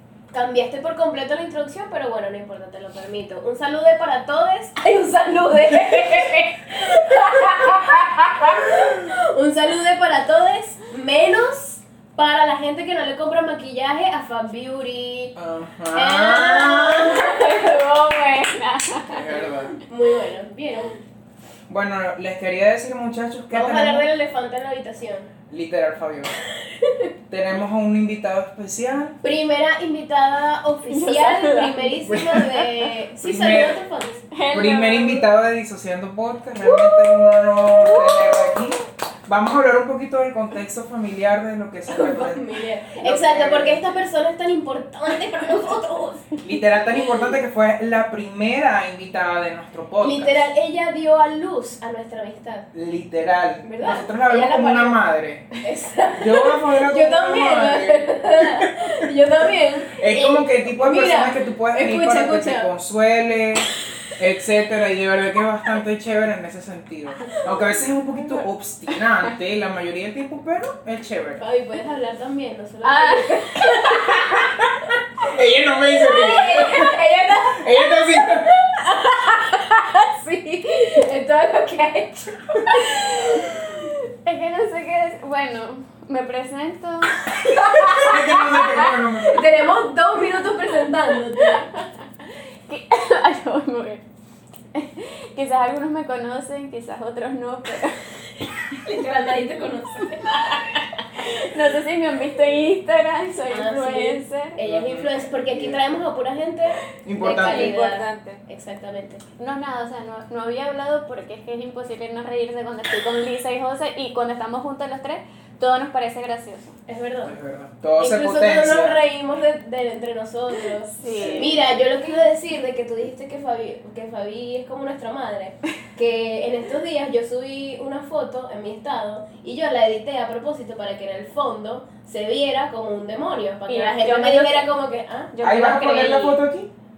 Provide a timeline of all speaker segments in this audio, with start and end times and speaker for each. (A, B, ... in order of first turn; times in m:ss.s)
0:00.3-0:15.3 A
0:15.3-0:17.1 B
0:15.9-0:17.7 A
0:16.5-0:19.3 C
0:19.1-0:19.8 B
0:19.4-0:20.9 A
0:21.7-0:24.1 B
0:23.5-0:25.3 A
0:25.5-0:26.3 B
0:26.6-0:27.1 A
0:27.3-0:29.2 B
0:29.2-0:34.2 A
0:30.9-0:32.7 C
0:32.1-0:32.4 B
0:33.2-0:33.8 B
0:34.3-0:35.3 C
0:34.5-0:42.4 B
0:36.7-0:37.1 C
0:37.6-0:38.6 C
0:41.9-0:46.4 A
0:42.9-0:43.8 B
0:46.4-0:50.5 B
0:50.0-0:52.7 A
0:52.7-0:55.5 B
0:53.6-0:55.1 A
0:55.6-1:02.7 A
0:56.2-0:59.1 B
0:59.9-1:11.4 B
1:11.4-1:14.6 A
1:12.8-1:14.1 C
1:14.1-1:18.5 B
1:15.8-1:23.6 A
1:22.8-1:28.8 C
1:27.2-1:31.7 A
1:27.9-1:29.4 B
1:32.7-1:34.0 C
1:34.7-1:38.4 C
1:38.7-1:41.5 A
1:40.4-1:44.6 C
1:43.5-1:49.2 A
1:44.6-1:45.8 B
1:47.0-1:47.8 B
1:47.2-1:48.4 C
1:49.4-1:56.8 C
1:56.9-1:57.3 A
1:57.2-1:59.0 B
1:58.0-2:15.3 A
2:01.0-2:01.5 C
2:01.1-2:01.6 B
2:13.7-2:14.6 C
2:15.3-2:16.4 C
2:15.4-2:16.7 B